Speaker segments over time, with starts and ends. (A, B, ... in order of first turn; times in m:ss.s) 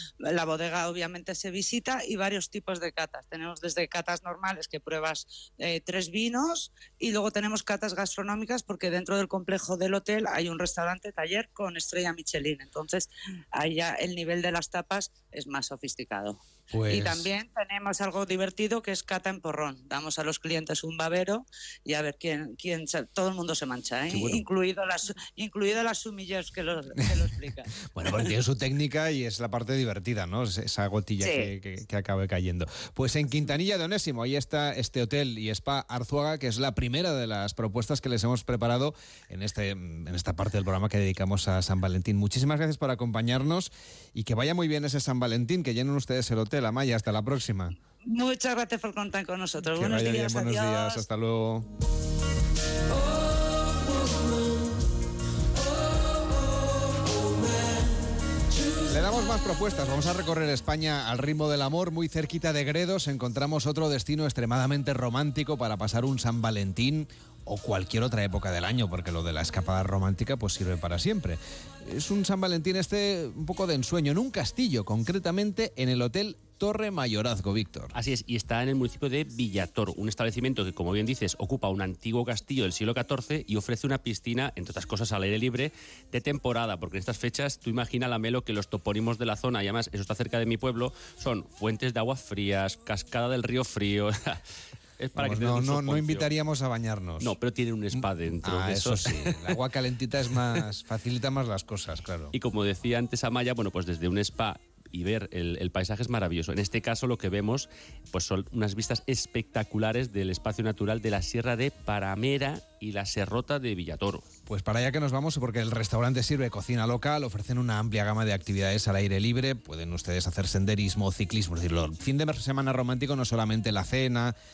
0:00.2-0:28.3 A
0:16.7-0:17.3 B
0:27.9-0:47.7 B
0:31.2-0:31.5 A
0:48.0-0:51.0 A
0:49.8-0:51.7 B
0:58.9-1:17.9 B
1:17.9-1:34.4 C
1:35.0-1:36.3 C
1:35.2-1:37.3 B
1:37.2-1:39.6 C
1:38.4-1:42.3 B
1:42.3-1:54.2 C
1:54.5-2:04.3 B